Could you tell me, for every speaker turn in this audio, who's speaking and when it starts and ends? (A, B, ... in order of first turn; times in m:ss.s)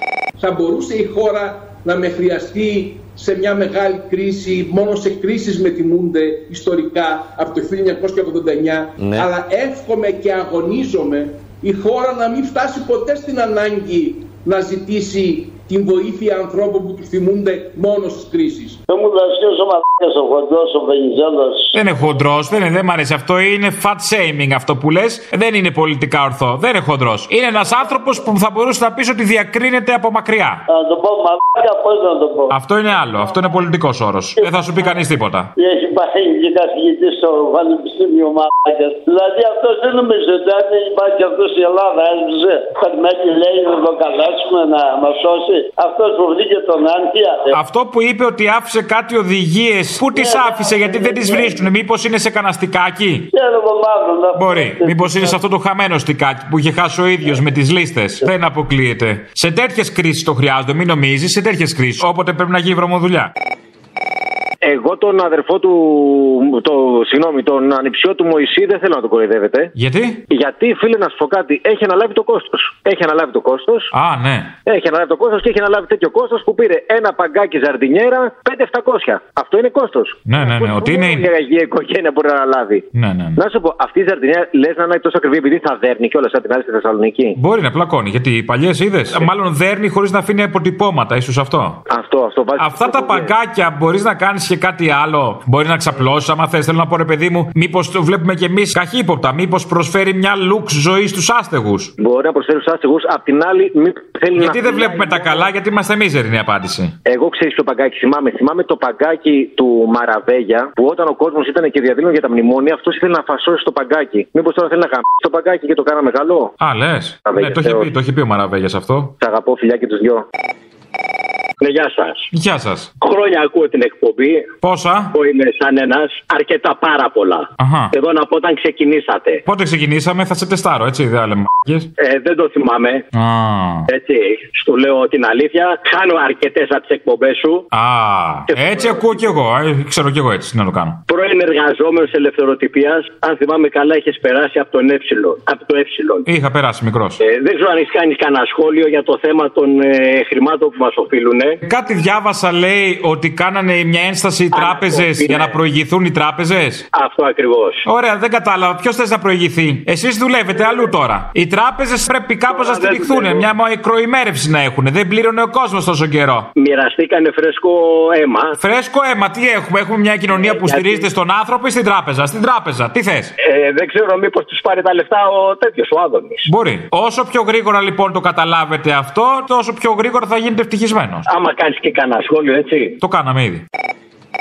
0:00.4-0:18.8 A
0:18.9-0:21.8 B
0:21.7-0:30.6 C
0:30.7-0:32.6 B
0:32.5-0:35.5 C
0:34.4-0:47.6 B
0:47.5-0:53.3 C
0:50.1-0:51.7 B
0:53.3-0:55.4 B
0:54.3-1:03.3 C
1:04.6-1:09.7 D
1:09.8-1:10.2 C
1:10.3-1:13.9 D
1:13.9-1:14.5 C
1:14.7-1:22.8 D
1:20.3-1:21.3 C
1:22.9-1:23.4 C
1:23.4-1:27.3 D
1:27.4-1:31.8 C
1:31.9-1:32.6 D
1:32.6-1:41.9 C
1:42.0-1:44.6 D
1:44.3-1:46.9 C
1:47.1-1:56.5 D
1:56.6-1:59.1 C
1:59.2-2:00.2 D
2:01.6-2:02.2 E
2:02.3-2:02.9 C
2:03.0-2:04.5 E
2:04.6-2:05.1 C
2:05.1-2:09.4 E
2:07.6-2:07.9 C
2:09.4-2:11.9 C
2:12.0-2:13.0 E
2:13.1-2:13.9 C
2:13.9-2:17.7 E
2:17.7-2:21.0 C
2:18.5-2:19.2 E
2:21.1-2:26.2 E
2:26.2-2:27.2 C
2:27.2-2:31.6 E
2:31.6-2:36.8 C
2:34.5-2:35.6 E
2:36.9-2:37.8 E
2:37.8-2:46.5 C
2:42.5-2:43.5 E
2:46.6-2:48.5 E
2:48.6-2:53.3 C
2:50.3-2:51.1 E
2:53.4-2:56.5 E
2:56.4-3:01.2 C
3:01.3-3:03.0 E
3:03.0-3:03.6 C